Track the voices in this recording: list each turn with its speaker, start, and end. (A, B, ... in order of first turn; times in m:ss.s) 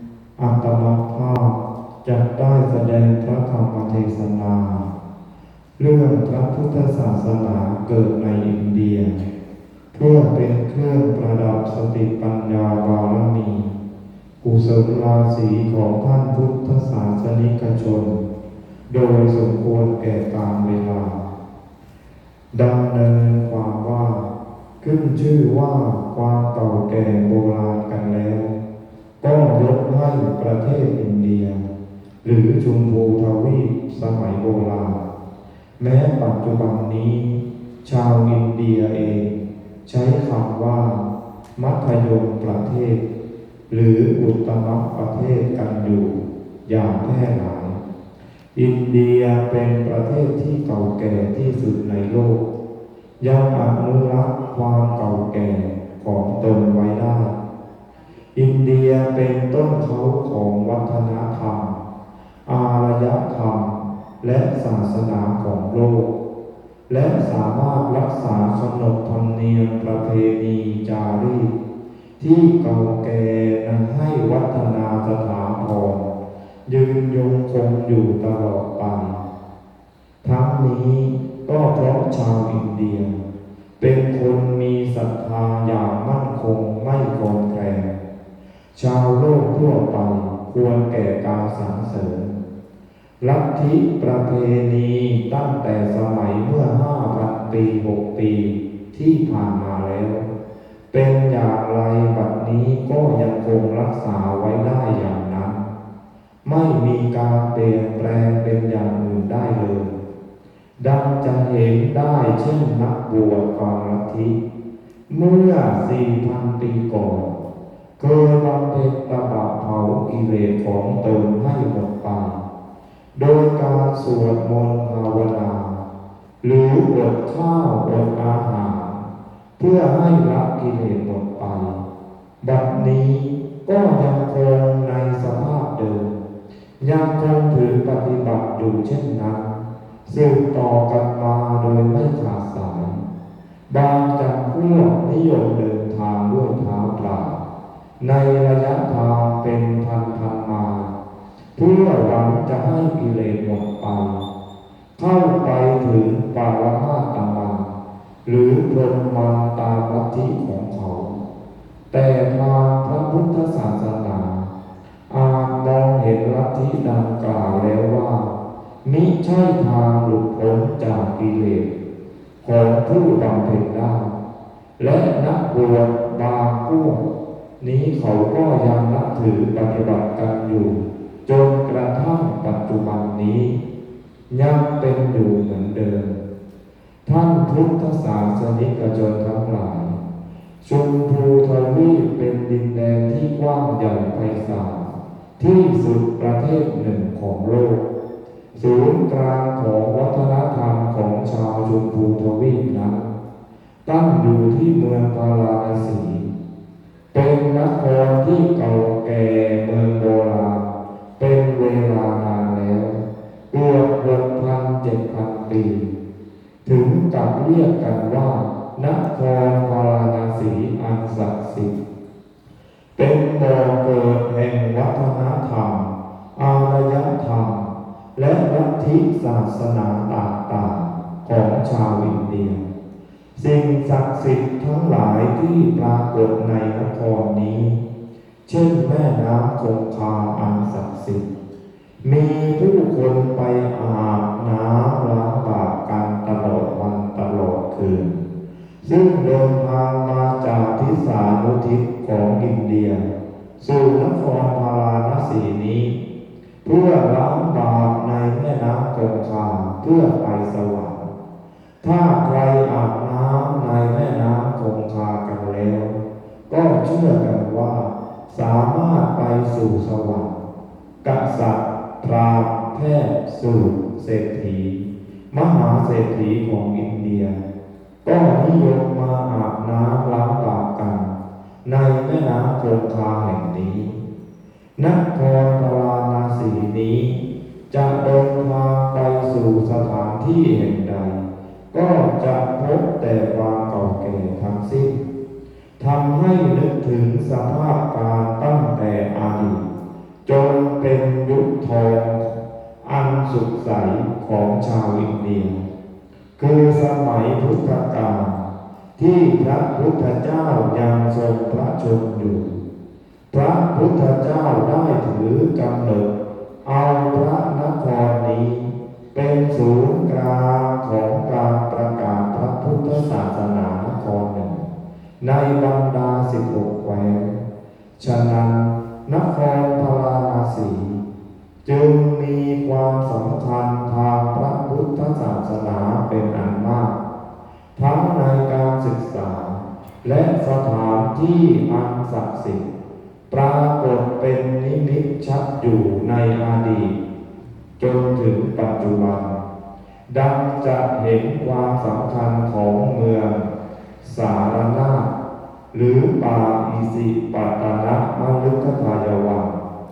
0:00.4-0:04.9 A
0:05.8-0:09.2 A
0:09.9-0:13.7 A
0:14.4-0:18.3 A
0:18.9-0:21.2 A
0:22.5-0:24.3 A
0:24.8-0:28.6 A
0:29.2-0:31.6 A
0:32.2-0:35.0 A
0:35.8-0:43.0 A
0:43.7-0:47.8 A
0:48.6-0:52.4 A
0:53.2-0:57.3 A
0:58.3-1:01.8 A
1:02.4-1:06.1 A
1:06.9-1:11.5 A
1:12.2-1:16.1 A
1:16.7-1:19.2 A
1:20.2-1:23.2 A
1:23.8-1:28.0 A
1:28.7-1:32.4 A
1:33.2-1:40.2 A
1:40.9-1:45.7 A
1:46.4-1:50.0 A
1:50.8-1:54.4 A
1:55.1-1:57.4 A
1:58.0-2:02.4 A
2:03.2-2:05.8 A
2:06.4-2:09.0 A
2:09.6-2:11.8 A
2:12.4-2:16.1 A
2:16.8-2:23.0 A
2:23.7-2:27.4 A
2:28.0-2:30.9 A
2:31.6-2:34.2 A
2:35.0-2:37.7 A
2:38.2-2:41.2 A
2:41.9-2:44.5 A
2:45.1-2:51.7 A
2:52.4-2:54.1 A
2:54.8-2:57.0 A
2:57.6-3:03.6 A
3:04.3-3:06.2 A
3:07.0-3:10.0 A
3:10.6-3:17.9 A
3:18.5-3:23.2 A
3:23.8-3:26.3 A
3:27.1-3:35.9 A
3:36.6-3:41.8 A
3:43.0-3:52.6 A
3:53.4-3:57.8 A
3:58.5-4:01.3 A
4:02.0-4:08.2 A
4:08.8-4:13.0 A
4:13.6-4:16.0 A
4:16.6-4:21.1 A
4:21.8-4:26.0 A
4:26.5-4:30.4 A
4:31.0-4:37.4 A
4:38.0-4:44.0 A
4:44.8-4:47.2 A
4:47.7-4:55.0 A
4:55.8-4:59.7 A
5:00.2-5:05.6 A
5:06.4-5:12.6 A
5:13.3-5:16.1 A
5:16.6-5:24.7 A
5:25.2-5:27.4 A
5:28.0-5:31.0 A
5:31.6-5:37.0 A
5:37.8-5:42.7 A
5:43.3-5:47.0 A
5:47.8-5:49.4 A
5:50.1-5:53.5 A
5:54.0-5:55.1 A
5:55.7-5:59.6 A